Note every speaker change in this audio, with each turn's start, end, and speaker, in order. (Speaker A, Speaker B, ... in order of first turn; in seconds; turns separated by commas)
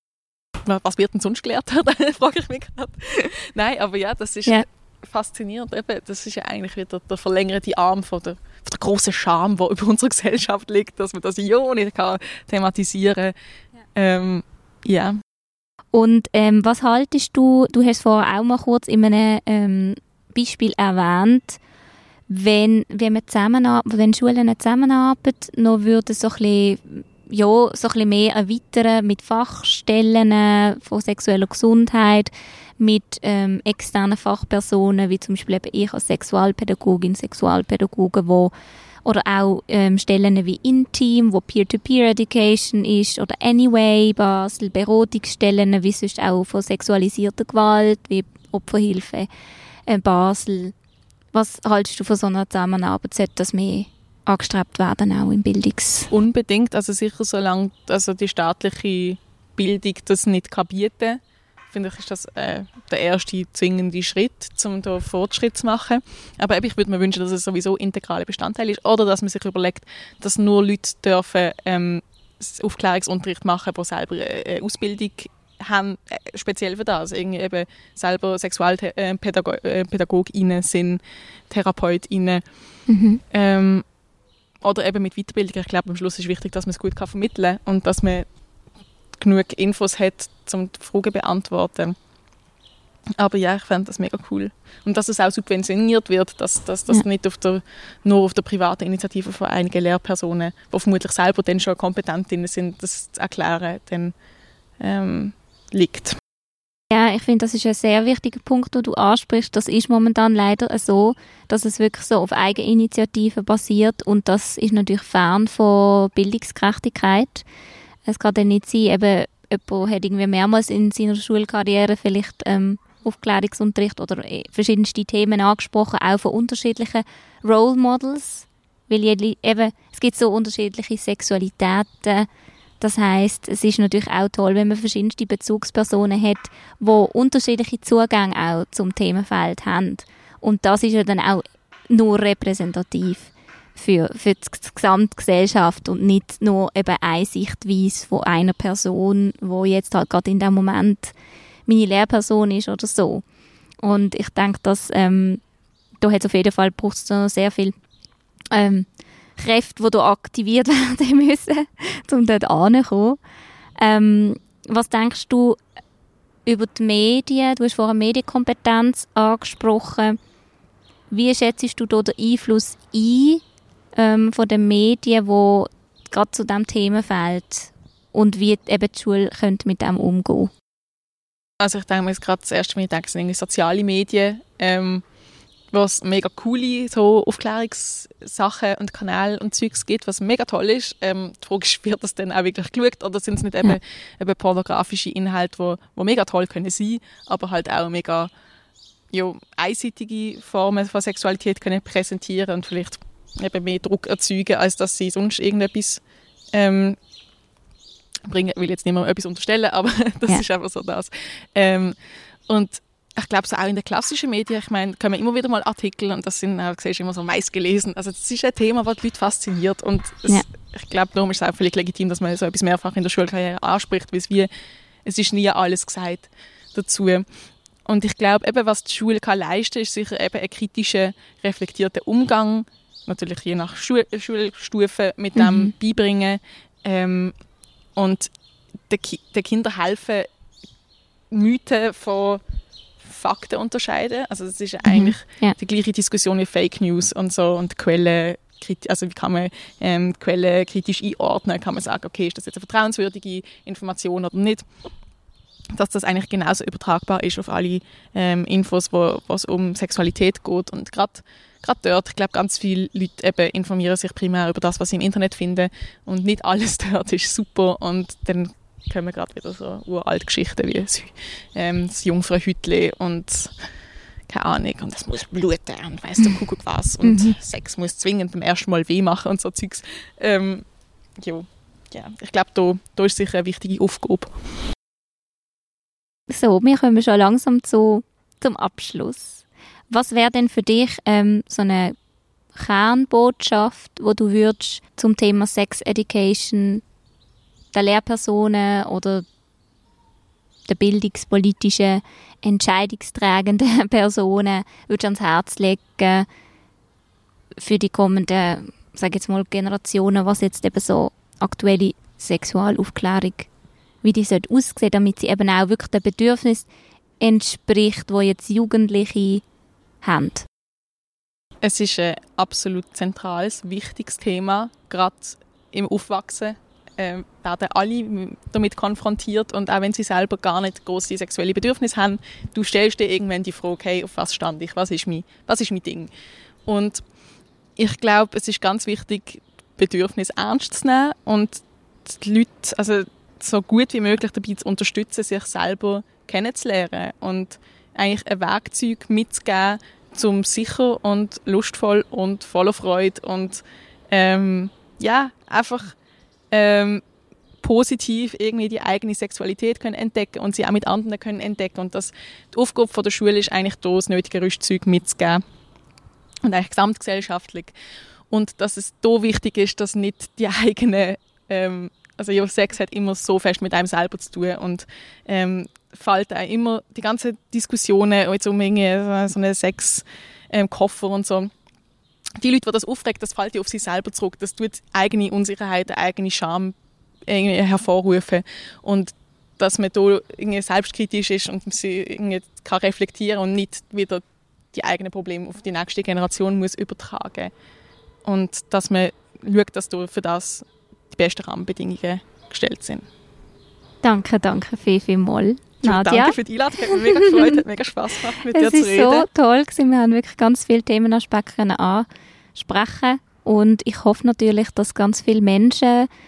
Speaker A: 0.7-13.3, Speaker A: 13.9-15.2, Speaker B: 15.9-21.6, Speaker B: 22.3-38.5, Speaker B: 39.0-49.3, Speaker B: 49.9-50.8, Speaker B: 51.3-56.1, Speaker A: 56.1-61.2, Speaker A: 61.7-82.4, Speaker B: 82.9-83.2, Speaker A: 83.3-83.8, Speaker A: 84.6-88.3, Speaker A: 89.2-92.0, Speaker A: 93.2-104.1, Speaker A: 104.8-106.2, Speaker B: 106.9-117.5, Speaker B: 118.1-132.3, Speaker B: 132.8-151.1, Speaker B: 151.7-153.2, Speaker B: 153.8-155.4, Speaker B: 156.0-157.8, Speaker B: 158.5-158.9, Speaker B: 159.4-163.2, Speaker B: 163.8-165.6, Speaker B: 166.5-170.2, Speaker B: 171.1-173.4, Speaker B: 174.0-180.5, Speaker A: 181.6-185.0, Speaker A: 185.7-198.3, Speaker A: 199.1-206.0, Speaker A: 206.5-207.0, Speaker A: 208.3-212.0, Speaker A: 212.5-224.5, Speaker A: 225.1-227.2, Speaker A: 227.9-237.3, Speaker B: 235.4-235.7, Speaker A: 238.0-238.3, Speaker A: 238.9-240.3, Speaker A: 241.3-242.4, Speaker A: 243.0-254.7, Speaker B: 244.8-245.6, Speaker A: 255.7-273.6, Speaker A: 274.3-280.6, Speaker B: 277.0-277.4, Speaker A: 281.2-284.3, Speaker B: 286.3-291.9, Speaker B: 292.6-296.8, Speaker B: 297.7-299.3, Speaker B: 300.7-306.3, Speaker B: 307.6-313.5, Speaker B: 314.0-316.7, Speaker B: 317.2-319.4, Speaker B: 320.0-320.4, Speaker A: 321.6-336.1, Speaker A: 336.7-337.0, Speaker A: 337.8-356.0, Speaker A: 356.5-357.0, Speaker A: 357.6-365.4, Speaker A: 366.4-367.7, Speaker A: 368.3-381.5, Speaker A: 382.4-386.8, Speaker A: 387.3-397.5, Speaker A: 398.2-403.1, Speaker B: 404.0-407.6, Speaker A: 405.8-409.3, Speaker B: 408.4-416.1